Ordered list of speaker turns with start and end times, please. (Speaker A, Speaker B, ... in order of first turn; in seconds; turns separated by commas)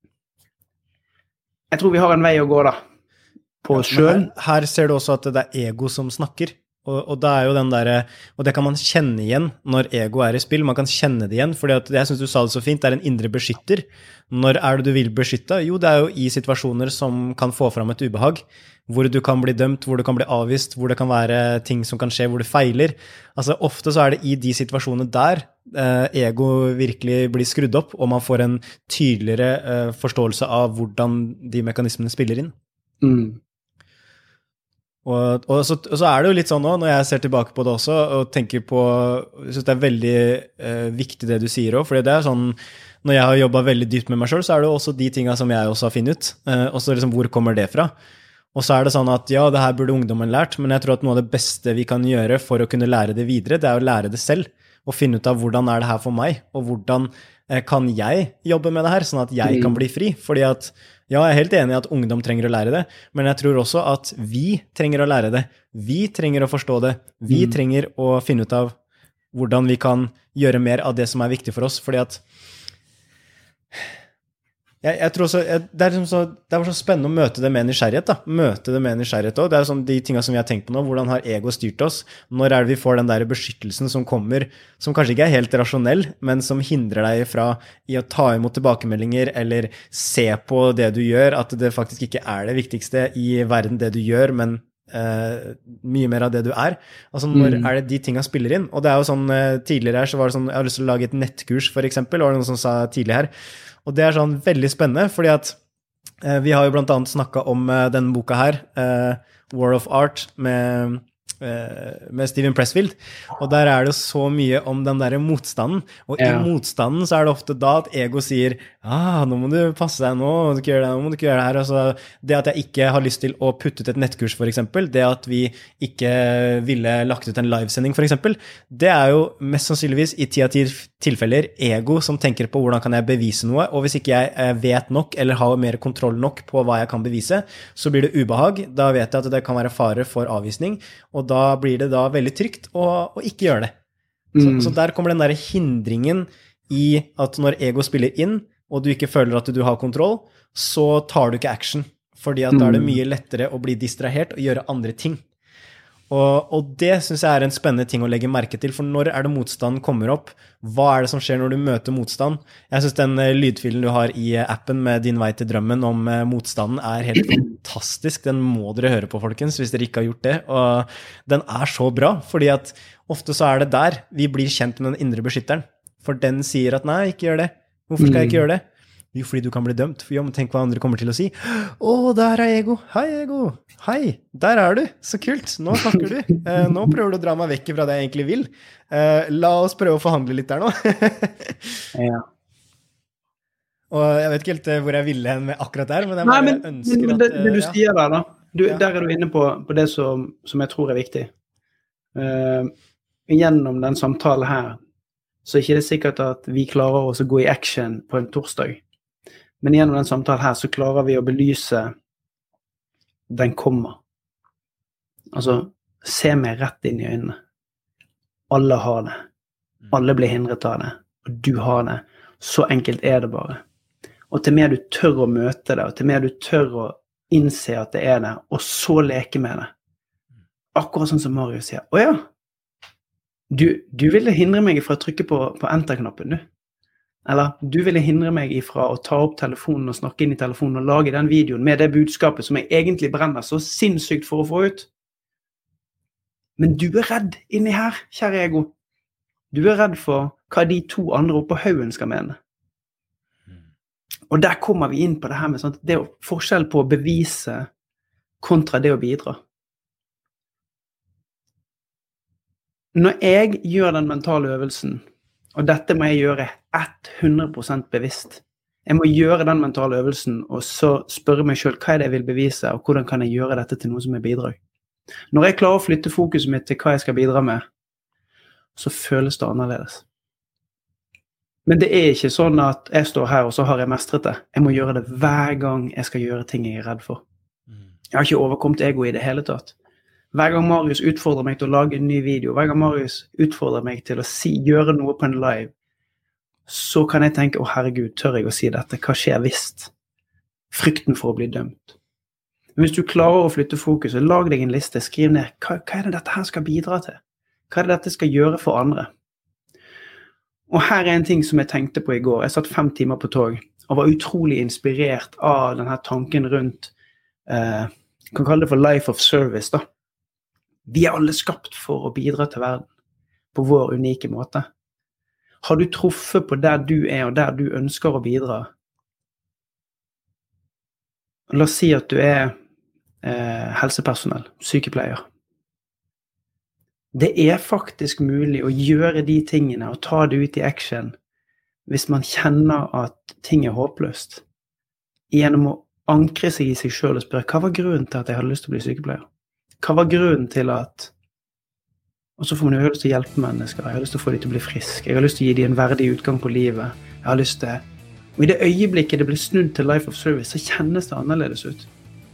Speaker A: 1.7-2.8, Speaker A: 3.6-4.3, Speaker B: 3.7-32.5, Speaker A: 33.0-33.4, Speaker B: 35.0-47.9, Speaker B: 48.5-68.7, Speaker A: 59.4-59.8, Speaker A: 67.3-67.6, Speaker B: 69.3-72.2, Speaker B: 74.8-103.3, Speaker A: 97.3-97.7, Speaker B: 103.8-105.6, Speaker B: 106.2-143.7, Speaker A: 116.2-116.5, Speaker A: 144.3-144.8, Speaker B: 144.4-155.2, Speaker A: 152.5-153.0, Speaker B: 156.1-178.6, Speaker A: 178.0-178.4, Speaker B: 179.1-191.7, Speaker A: 191.9-192.2, Speaker B: 193.9-197.8, Speaker A: 196.2-201.3, Speaker A: 202.2-202.7, Speaker A: 203.3-204.8, Speaker A: 205.4-208.8, Speaker A: 209.6-211.9, Speaker A: 213.3-214.0, Speaker A: 215.3-217.3, Speaker A: 218.5-219.2, Speaker A: 219.9-223.6, Speaker A: 224.3-229.7, Speaker A: 230.8-232.2, Speaker A: 233.5-236.4, Speaker A: 237.3-244.9, Speaker A: 246.6-248.7, Speaker A: 249.5-252.3, Speaker A: 254.3-257.7, Speaker A: 258.4-259.4, Speaker A: 262.9-265.0, Speaker A: 265.6-274.6, Speaker A: 275.3-277.6, Speaker A: 278.8-280.0, Speaker A: 281.7-287.2, Speaker A: 288.1-289.8, Speaker A: 290.3-295.7, Speaker A: 296.7-299.9, Speaker A: 300.7-302.0, Speaker A: 302.8-309.1, Speaker A: 310.7-316.9, Speaker A: 317.5-319.8, Speaker A: 320.9-322.9, Speaker A: 323.5-324.7, Speaker A: 325.6-328.7, Speaker A: 331.5-332.5, Speaker A: 333.2-335.2, Speaker A: 337.1-341.1, Speaker A: 341.9-344.4, Speaker A: 345.3-349.3, Speaker A: 349.8-351.1, Speaker A: 352.4-357.8, Speaker A: 358.4-361.9